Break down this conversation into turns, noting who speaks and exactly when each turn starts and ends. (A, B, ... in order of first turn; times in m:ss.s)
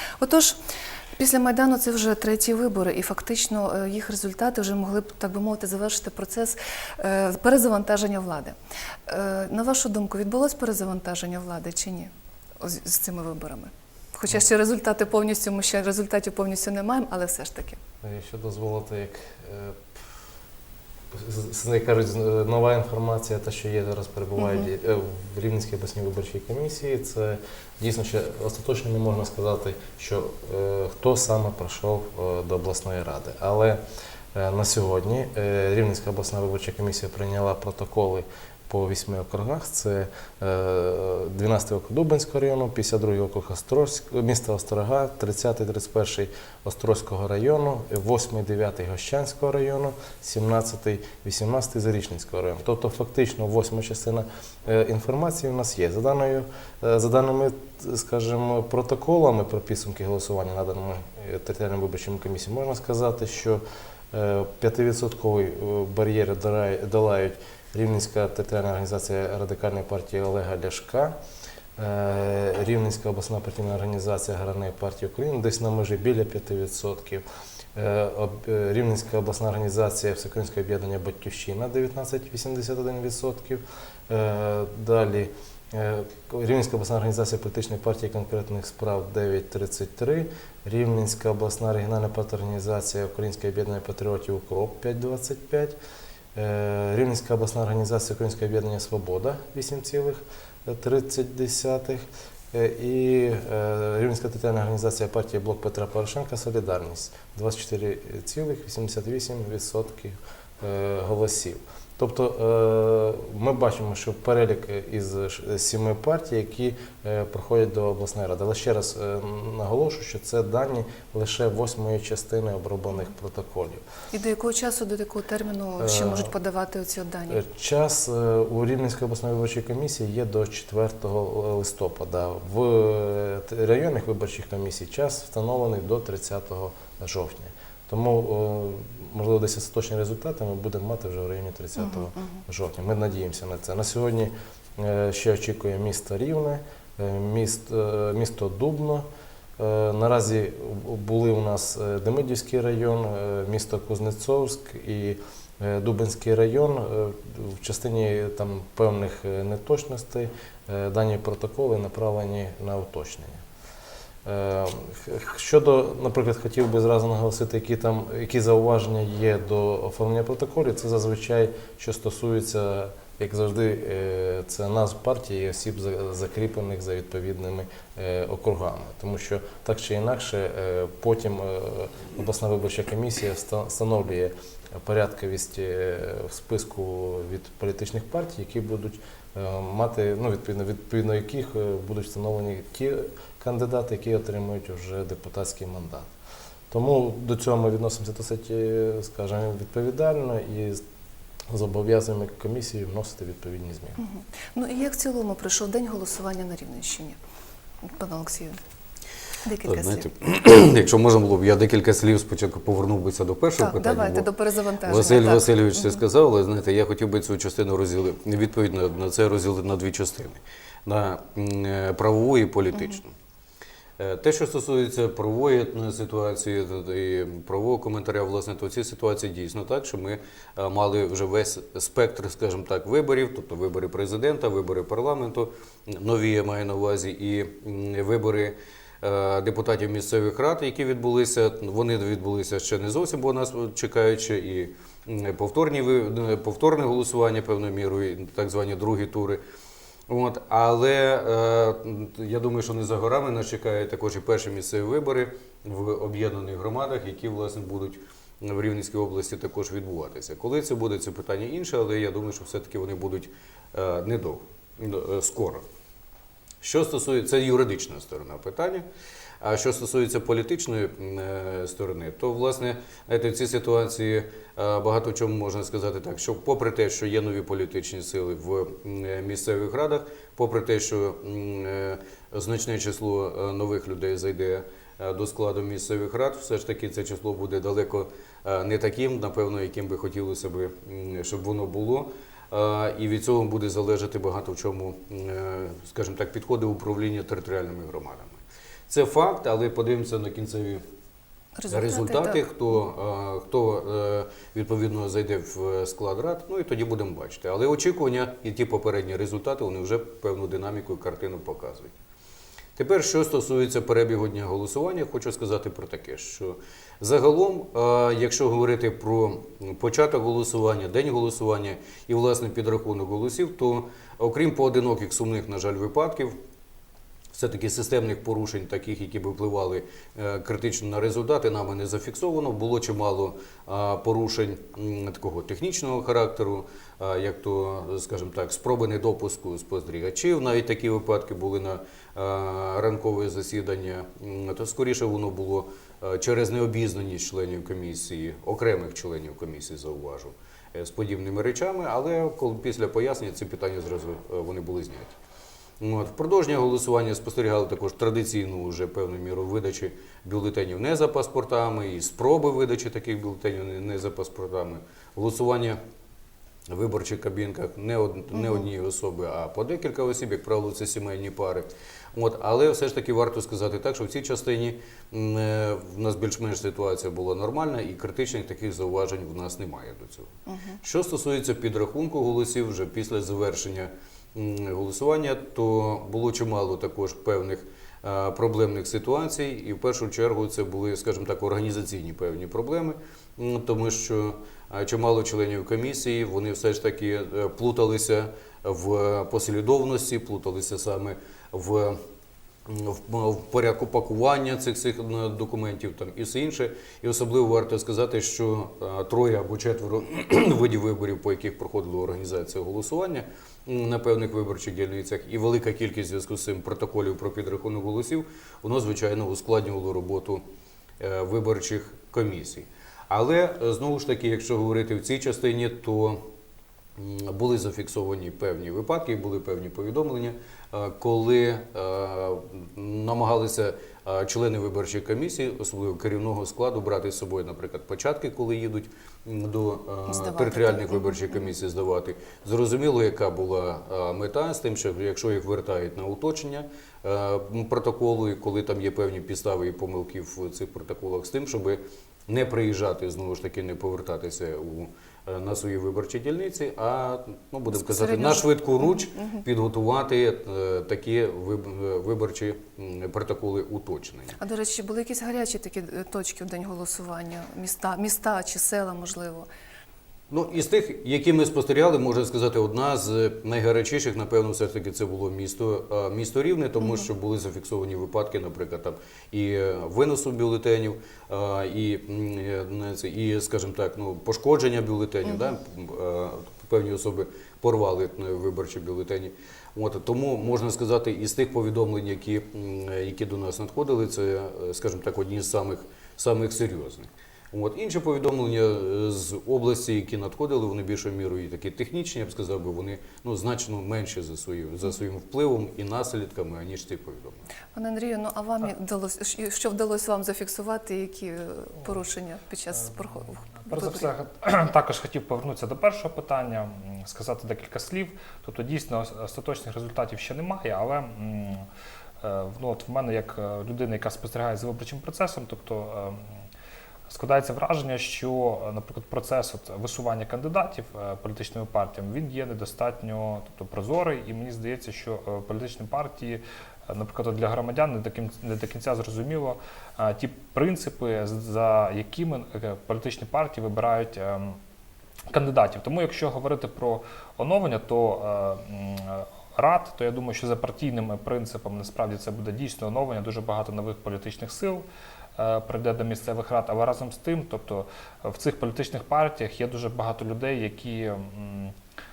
0:00.2-0:00.6 A
0:01.2-0:08.6 A
0:09.1-0:17.8 A
0:18.0-0:20.0 B
0:21.1-0:33.8 B
0:24.4-0:24.7 A
0:34.3-1:11.2 B
1:11.8-1:17.2 B
1:17.7-1:35.8 B
1:36.3-2:03.8 B
2:04.1-2:07.4 A
2:05.8-2:06.3 B
2:07.3-2:29.0 B
2:21.8-2:22.2 A
2:29.6-2:43.4 B
2:44.2-3:16.1 B
3:16.7-3:20.8 B
3:21.5-3:24.0 B
3:24.0-3:27.2 A
3:27.8-3:28.6 A
3:29.4-3:30.1 A
3:29.7-3:34.3 C
3:33.6-3:36.0 A
3:34.8-3:43.1 C
3:44.0-4:09.4 C
4:10.1-4:25.6 C
4:26.6-4:28.8 C
4:29.4-5:00.8 C
5:01.6-5:02.4 A
5:01.7-5:12.0 C
5:12.8-5:26.3 C
5:27.3-5:55.1 C
5:55.8-6:05.8 C
6:06.7-6:42.0 C
6:08.3-6:08.6 A
6:20.5-6:20.8 A
6:42.6-7:00.4 C
7:01.0-7:06.2 C
7:07.0-7:44.4 C
7:20.1-7:21.4 A
7:37.8-7:39.4 A
7:44.4-7:49.5 A
7:50.3-8:27.4 C
8:27.7-8:34.1 A
8:33.6-8:41.6 D
8:42.2-8:46.3 D
8:47.1-9:04.6 D
9:05.3-9:14.8 D
9:15.4-9:21.7 D